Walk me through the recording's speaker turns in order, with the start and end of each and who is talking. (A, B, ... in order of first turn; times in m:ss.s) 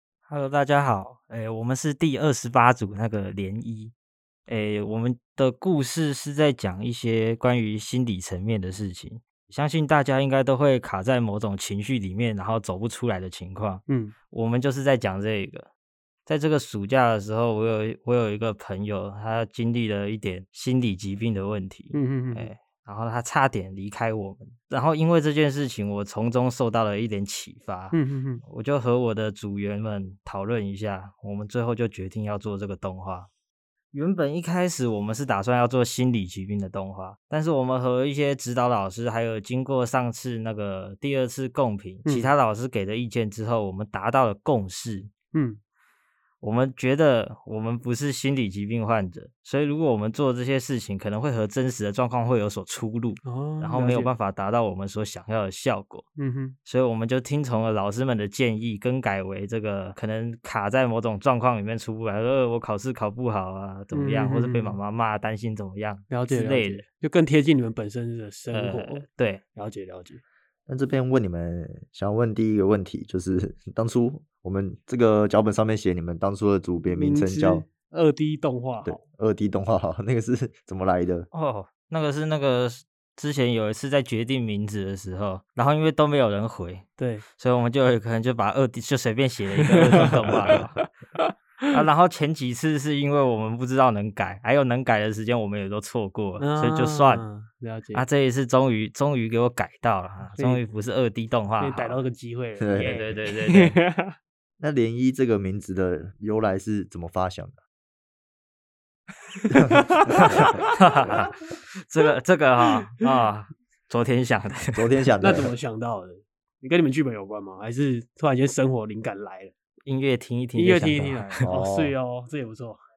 0:00.3-0:03.9 A
0:04.5-0:15.7 A
0:13.9-0:14.2 B
0:16.3-0:33.3 A
0:21.9-0:22.5 B
0:27.9-0:28.4 B
0:33.9-0:45.1 A
0:42.1-0:42.3 B
0:45.3-0:45.6 B
0:46.4-0:56.0 A
0:53.2-0:54.1 B
0:56.2-0:56.6 B
0:56.6-1:06.8 A
1:03.9-1:04.8 B
1:06.1-1:09.0 B
1:08.5-1:09.4 A
1:09.6-1:10.2 B
1:10.7-1:17.7 C
1:16.9-1:19.0 B
1:18.8-1:21.3 C
1:21.3-1:30.8 A
1:27.0-1:27.2 B
1:30.8-1:31.8 B
1:31.7-1:37.2 A
1:36.4-1:38.1 B
1:37.9-1:42.0 A
1:40.4-1:40.6 B
1:41.6-1:44.2 B
1:42.6-1:43.0 C
1:42.7-1:43.8 A
1:44.6-1:47.6 C
1:49.4-1:51.1 B
1:49.5-1:49.8 C
1:50.2-1:54.8 A
1:54.7-1:55.5 C
1:55.2-1:59.5 B
1:59.9-2:01.4 A
2:00.5-2:02.8 B
2:01.4-2:01.9 C